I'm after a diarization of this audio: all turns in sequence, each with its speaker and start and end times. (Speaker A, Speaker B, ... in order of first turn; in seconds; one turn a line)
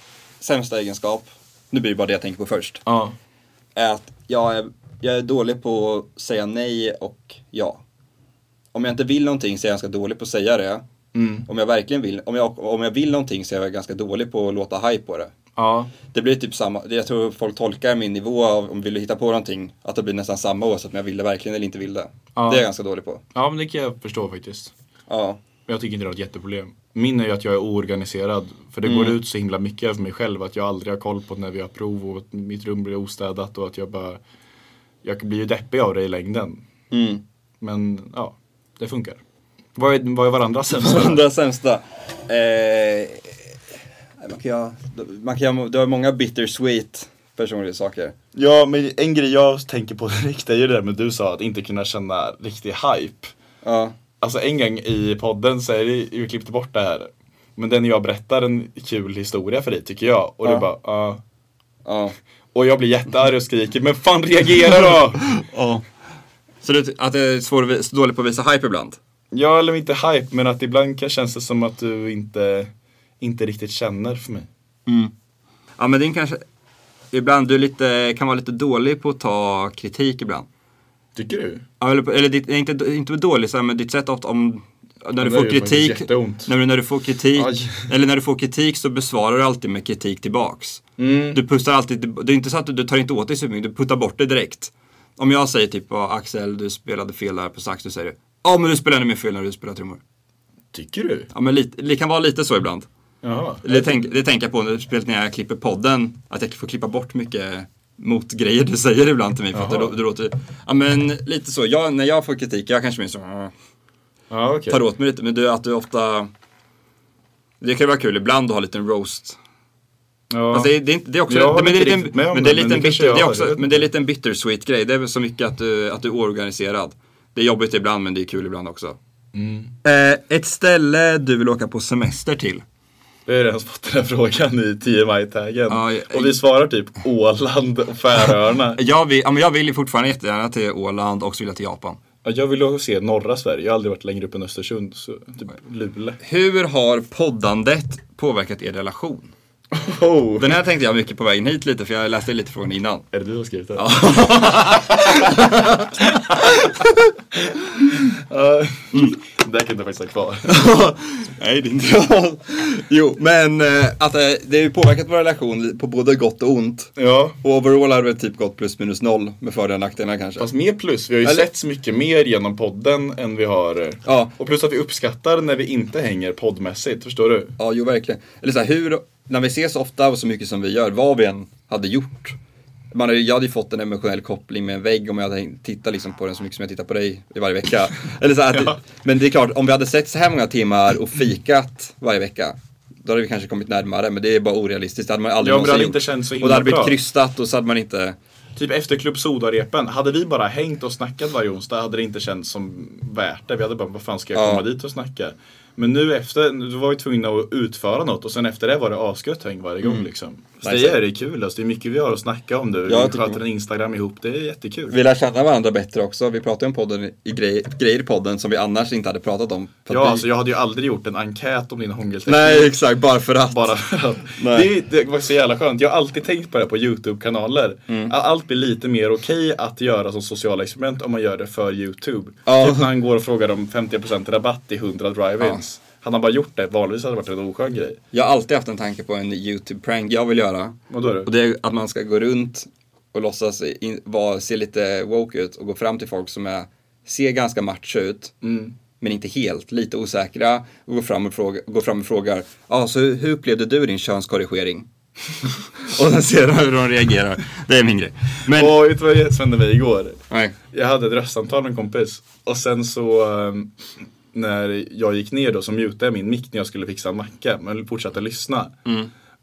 Speaker A: 0.4-2.8
Speaker B: 2.9-3.1
Speaker A: 3.7-7.8
Speaker A: 8.7-10.8
Speaker B: 11.1-11.4
Speaker A: 11.4-15.3
Speaker B: 15.6-15.9
Speaker A: 16.1-23.2
Speaker B: 22.4-22.6
Speaker B: 23.3-24.7
Speaker A: 25.1-25.4
Speaker B: 25.7-34.2
Speaker A: 28.8-29.2
Speaker B: 35.0-36.6
Speaker A: 36.9-37.2
Speaker B: 37.6-39.2
Speaker B: 39.8-41.2
Speaker A: 40.8-43.5
Speaker A: 44.2-48.1
Speaker B: 48.3-53.3
Speaker A: 53.6-54.0
Speaker B: 54.2-61.2
Speaker A: 61.8-62.1
Speaker B: 62.5-65.3
Speaker A: 65.2-65.8
Speaker A: 66.6-69.0
Speaker B: 69.3-74.5
Speaker A: 74.8-75.1
Speaker A: 75.8-76.4
Speaker A: 77.1-80.5
Speaker B: 81.1-81.6
Speaker A: 81.8-90.8
Speaker B: 85.2-86.5
Speaker B: 87.3-87.9
Speaker B: 91.0-91.4
Speaker A: 91.3-100.0
Speaker B: 100.7-101.3
Speaker A: 101.3-102.9
Speaker B: 103.2-104.0
Speaker A: 103.6-113.5
Speaker B: 109.5-109.9
Speaker B: 114.3-114.8
Speaker A: 114.7-116.3
Speaker A: 117.6-119.4
Speaker B: 120.3-120.7
Speaker A: 120.5-129.0
Speaker B: 121.3-123.9
Speaker B: 129.3-129.7
Speaker A: 129.8-132.6
Speaker B: 133.2-138.8
Speaker A: 135.7-136.4
Speaker A: 138.8-142.0
Speaker B: 142.2-146.2
Speaker A: 146.2-149.3
Speaker B: 149.7-150.5
Speaker A: 150.4-153.1
Speaker B: 153.1-156.5
Speaker A: 153.8-157.0
Speaker B: 157.9-160.6
Speaker A: 160.5-170.5
Speaker B: 167.0-167.4
Speaker B: 170.4-177.5
Speaker A: 174.0-174.3
Speaker A: 177.6-182.4
Speaker A: 182.9-198.2
Speaker B: 195.4-196.9
Speaker B: 198.6-214.9
Speaker A: 204.3-204.6
Speaker A: 210.6-211.0
Speaker A: 212.9-213.4
Speaker A: 214.9-220.3
Speaker B: 219.9-222.8
Speaker A: 222.2-223.7
Speaker B: 223.5-238.0
Speaker A: 224.3-224.7
Speaker A: 227.9-228.1
Speaker A: 232.4-232.9
Speaker A: 238.1-248.3
Speaker B: 240.9-241.3
Speaker B: 248.4-248.7
Speaker A: 249.0-254.9
Speaker A: 255.4-258.8
Speaker B: 258.5-263.7
Speaker A: 260.3-260.6
Speaker B: 264.3-268.7
Speaker A: 268.8-269.1